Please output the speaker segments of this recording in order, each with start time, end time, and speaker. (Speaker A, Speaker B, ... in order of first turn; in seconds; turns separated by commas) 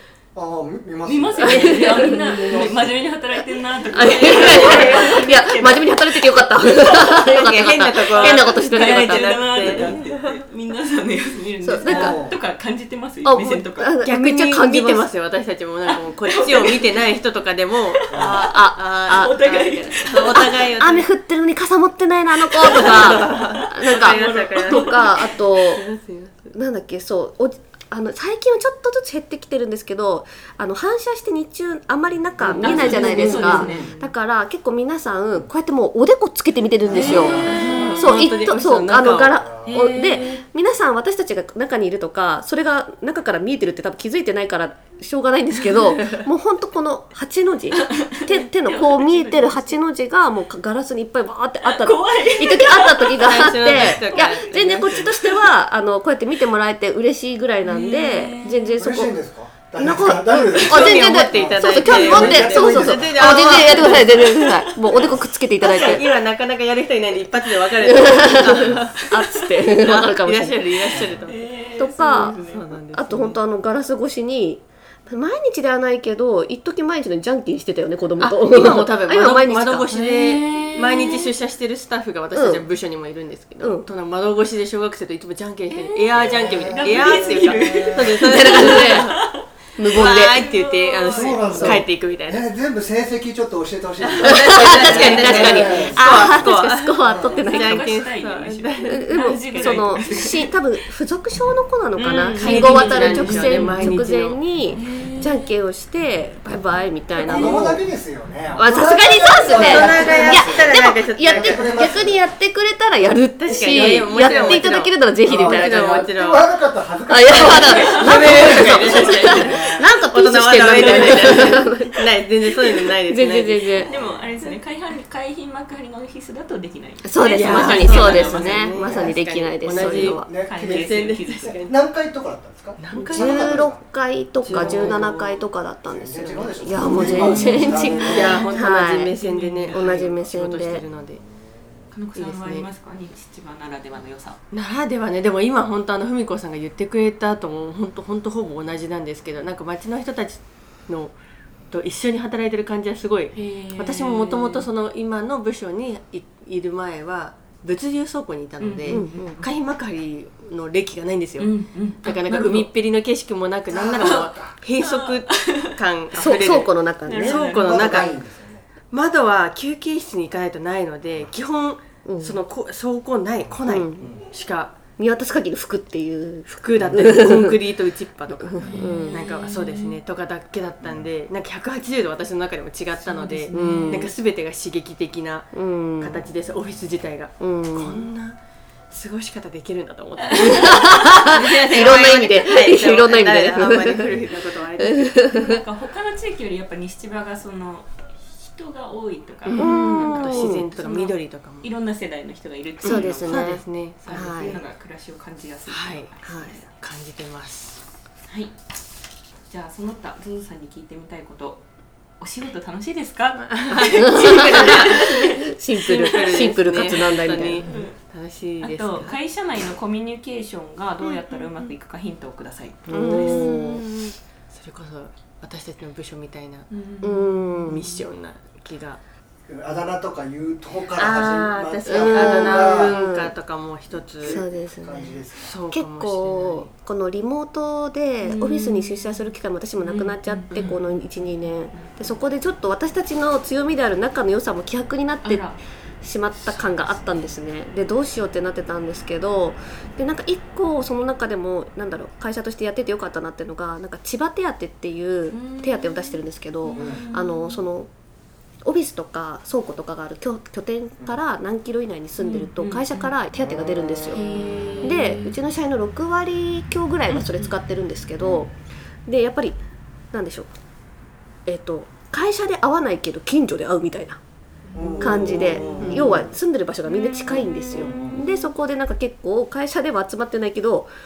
Speaker A: 0.3-3.0, Speaker B: 1.1-6.3, Speaker C: 1.4-2.5, Speaker C: 3.9-9.9, Speaker D: 4.5-5.2, Speaker B: 6.8-7.3, Speaker D: 6.9-10.4, Speaker B: 8.0-13.9, Speaker C: 11.6-12.2, Speaker A: 11.8-12.3, Speaker C: 13.2-15.1, Speaker D: 14.0-21.1, Speaker B: 16.2-17.0, Speaker B: 18.1-20.7, Speaker A: 18.1-18.4, Speaker C: 18.3-19.6, Speaker C: 20.2-25.8, Speaker D: 22.6-26.6, Speaker B: 22.6-25.5, Speaker C: 26.5-59.1, Speaker D: 32.4-34.1, Speaker A: 32.6-33.9, Speaker B: 32.6-33.9, Speaker A: 36.8-37.9, Speaker B: 36.9-38.2, Speaker D: 36.9-39.5, Speaker A: 39.5-39.7, Speaker B: 39.7-40.4, Speaker B: 47.7-49.8, Speaker B: 51.6-53.5, Speaker D: 53.2-55.2, Speaker A: 53.7-54.0, Speaker B: 54.1-55.5, Speaker B: 57.6-58.8, Speaker A: 58.8-63.9, Speaker C: 59.8-66.1, Speaker D: 60.5-64.5, Speaker B: 63.9-65.2, Speaker D: 65.6-69.0, Speaker C: 67.8-71.0, Speaker A: 68.4-68.9, Speaker B: 69.0-69.6, Speaker D: 69.7-73.4, Speaker A: 70.9-71.3, Speaker B: 71.2-72.7, Speaker C: 71.8-72.4, Speaker C: 72.9-79.9, Speaker D: 78.2-89.3, Speaker B: 79.9-81.3, Speaker C: 82.3-82.6, Speaker C: 83.6-83.9, Speaker B: 85.7-91.6, Speaker A: 86.1-88.2, Speaker C: 88.2-89.2, Speaker C: 89.8-90.4, Speaker D: 89.9-92.5, Speaker A: 91.1-96.5, Speaker C: 91.5-91.8, Speaker D: 94.0-99.8, Speaker C: 94.2-97.9, Speaker A: 97.0-97.4, Speaker B: 97.3-100.6, Speaker C: 98.9-107.8, Speaker B: 102.0-104.0, Speaker D: 102.0-104.4, Speaker B: 104.7-105.4, Speaker B: 107.2-107.7, Speaker A: 107.2-112.2, Speaker C: 108.6-116.4, Speaker D: 109.4-111.9, Speaker D: 113.5-116.5, Speaker A: 114.3-114.6, Speaker A: 115.2-119.9, Speaker C: 117.1-122.1, Speaker B: 117.3-119.7, Speaker D: 117.9-123.9, Speaker C: 122.7-123.9, Speaker B: 123.9-128.8, Speaker C: 127.0-130.3, Speaker D: 127.2-131.7, Speaker A: 128.8-129.2, Speaker A: 129.7-133.8, Speaker B: 130.4-131.7, Speaker D: 132.8-133.7, Speaker C: 133.1-139.2, Speaker D: 134.4-135.4, Speaker A: 134.5-135.1, Speaker A: 135.9-138.4, Speaker B: 136.8-140.0, Speaker D: 136.9-141.2, Speaker C: 139.7-140.8, Speaker B: 141.9-144.4, Speaker D: 142.2-142.7, Speaker D: 144.5-151.2, Speaker D: 151.7-168.2, Speaker B: 153.3-154.7, Speaker B: 158.6-159.5, Speaker C: 158.9-159.4, Speaker B: 161.4-162.7, Speaker A: 163.7-164.6, Speaker B: 164.8-165.7, Speaker C: 166.1-167.5, Speaker B: 167.1-167.9, Speaker A: 167.5-168.7, Speaker D: 168.9-174.8, Speaker C: 172.1-172.4, Speaker A: 173.4-174.2, Speaker C: 173.7-174.1, Speaker C: 175.0-177.6, Speaker D: 176.5-188.4, Speaker C: 178.3-179.2, Speaker A: 178.6-179.0, Speaker B: 178.7-180.0, Speaker A: 180.8-181.1, Speaker B: 183.0-184.1, Speaker C: 183.5-184.1, Speaker C: 185.5-186.3, Speaker C: 187.4-188.1, Speaker D: 188.9-195.1, Speaker B: 190.2-190.9, Speaker C: 190.4-194.2, Speaker C: 194.8-195.6, Speaker B: 195.3-206.7, Speaker D: 199.5-201.7, Speaker C: 199.6-200.7, Speaker D: 202.8-204.5, Speaker C: 202.8-204.6, Speaker D: 205.7-206.1, Speaker C: 206.3-206.6, Speaker D: 206.7-207.8, Speaker B: 208.3-208.5, Speaker B: 209.4-211.6, Speaker B: 212.2-216.6, Speaker D: 213.5-219.2, Speaker C: 214.0-217.7, Speaker B: 217.1-217.9, Speaker B: 218.6-223.5, Speaker C: 222.9-223.8, Speaker D: 222.9-226.7, Speaker B: 226.7-228.0, Speaker C: 227.0-227.9, Speaker D: 227.6-229.0, Speaker A: 229.5-233.0, Speaker D: 230.9-234.4, Speaker C: 231.9-233.3, Speaker A: 234.2-235.6, Speaker C: 234.2-235.2, Speaker D: 235.4-236.7, Speaker C: 235.7-245.5, Speaker B: 238.2-239.3, Speaker B: 239.8-242.2, Speaker B: 245.2-245.6, Speaker C: 246.0-257.9, Speaker D: 246.5-246.9, Speaker B: 255.3-257.6, Speaker A: 256.8-257.1, Speaker C: 258.6-264.2, Speaker B: 262.2-263.1, Speaker A: 263.4-264.8, Speaker B: 264.1-265.4, Speaker C: 264.8-268.5, Speaker B: 267.1-267.6, Speaker C: 269.1-269.6, Speaker C: 270.1-270.5, Speaker C: 271.5-274.2, Speaker A: 274.7-276.3, Speaker B: 274.8-276.3, Speaker C: 275.0-280.9, Speaker B: 277.4-278.3, Speaker A: 277.7-278.2